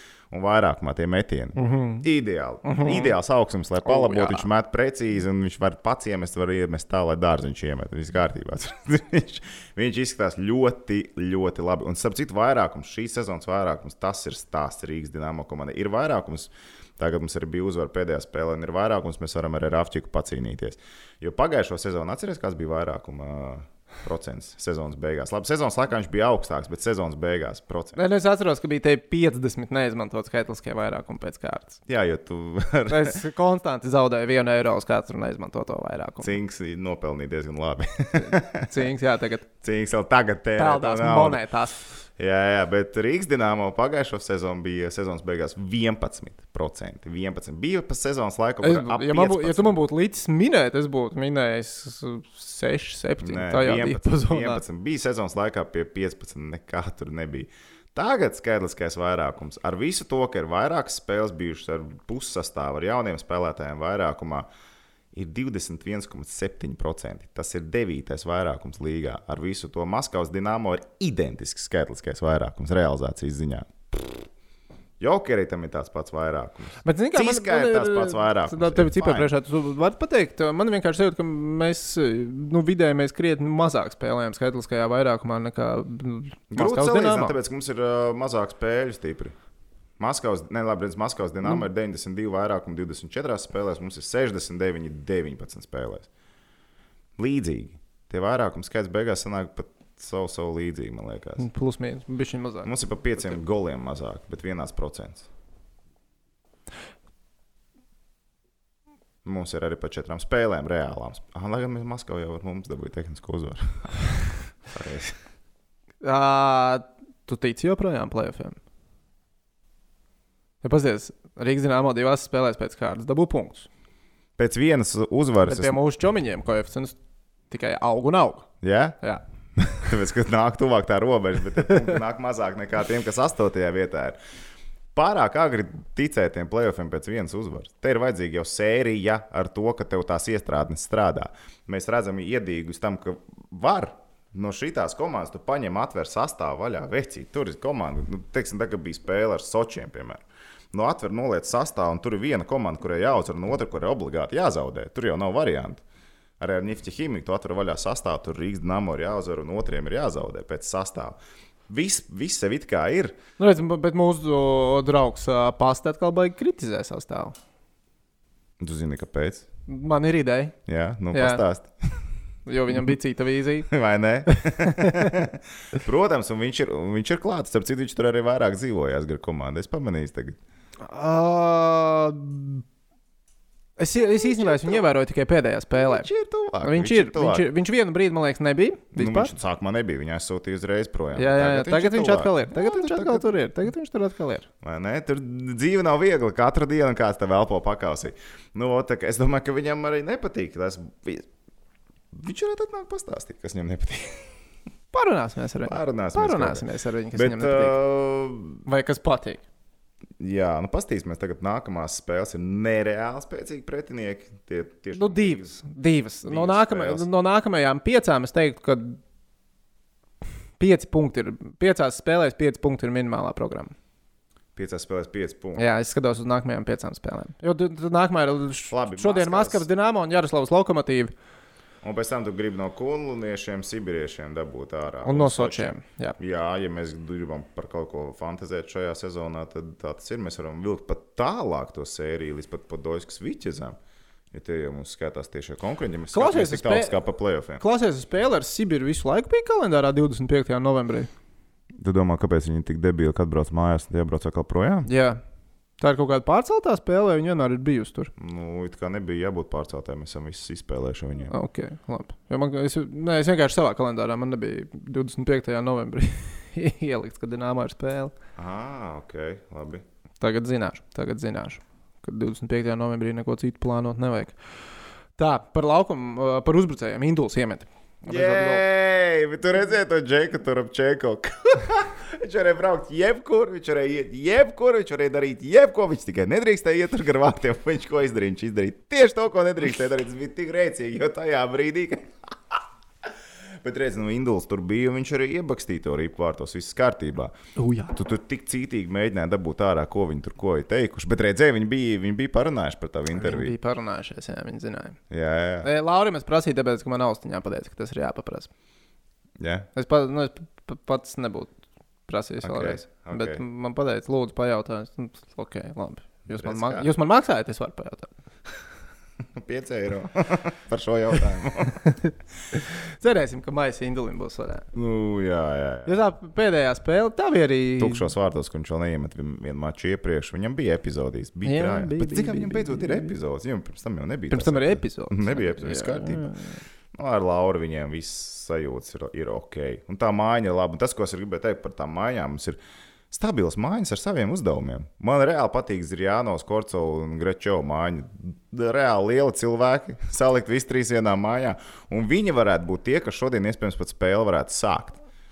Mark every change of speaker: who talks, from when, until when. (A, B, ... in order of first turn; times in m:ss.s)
0:00.3-0:28.0 A
0:01.6-0:02.0 B
0:02.6-0:03.1 B
0:03.8-0:04.5 B
0:28.0-0:31.8 B
0:31.9-0:33.2 A
0:32.9-0:36.4 B
0:36.2-0:38.9 A
0:38.2-0:39.5 B
0:39.6-0:41.4 A
0:40.6-0:41.9 B
0:42.2-0:49.8 A
0:48.6-0:54.6 B
0:53.2-1:04.5 A
1:05.1-1:14.3 A
1:15.0-1:19.3 A
1:16.8-1:27.4 B
1:26.5-1:29.3 A
1:30.0-1:36.1 A
1:37.2-1:41.4 A
1:41.4-1:42.7 B
1:42.6-1:45.3 A
1:49.2-1:54.2 A
1:54.7-1:55.2 A
1:56.0-1:58.6 B
2:00.6-2:03.7 B
2:04.4-2:05.8 A
2:05.4-2:07.0 B
2:07.5-2:08.5 B
2:08.6-2:09.0 A
2:09.6-2:14.2 A
2:14.9-2:35.8 A
2:36.4-2:41.2 A
2:41.7-2:43.2 A
2:43.4-2:47.3 B
2:48.6-2:49.4 A
2:49.7-2:50.5 B
2:50.7-2:52.0 A
2:51.1-2:51.4 B
2:52.4-2:53.7 B
2:53.7-3:00.4 A
2:54.3-2:55.2 B
3:00.8-3:02.6 B
3:03.8-3:06.1 B
3:04.0-3:04.8 A
3:05.7-3:07.5 A
3:06.6-3:09.3 B
3:08.9-3:13.3 A
3:11.1-3:14.5 B
3:14.6-3:21.3 A
3:22.1-3:24.3 A
3:24.9-3:27.8 B
3:25.6-3:28.6 A
3:28.6-3:29.4 B
3:30.2-3:35.6 A
3:34.9-3:39.0 B
3:36.2-3:37.1 A
3:40.6-3:43.7 B
3:44.6-3:45.6 A
3:45.6-3:51.1 B
3:48.7-3:49.6 A
3:51.8-4:03.8 A
3:55.0-3:56.2 B
4:04.3-4:07.6 A
4:06.1-4:07.0 B
4:07.6-4:11.1 B
4:11.8-4:14.9 A
4:14.8-4:15.2 B
4:15.8-4:18.1 B
4:18.2-4:21.3 A
4:21.3-4:28.1 B
4:28.4-4:29.8 A
4:30.2-4:34.4 B
4:35.2-4:38.6 B
4:38.0-4:53.1 A
4:53.6-4:57.3 A
4:57.6-4:57.9 B
4:57.9-5:03.5 A
5:03.1-5:05.0 B
5:05.1-5:05.7 A
5:05.6-5:08.5 B
5:09.4-5:09.7 A
5:09.7-5:11.5 B
5:12.1-5:18.1 B
5:12.4-5:13.4 A
5:16.3-5:16.9 A
5:19.4-5:21.8 A
5:21.8-5:24.6 B
5:24.7-5:26.0 A
5:25.8-5:28.1 B
5:27.8-5:36.3 A
5:31.4-5:33.1 B
5:34.3-5:36.6 B
5:36.9-5:42.6 A
5:43.1-5:55.0 A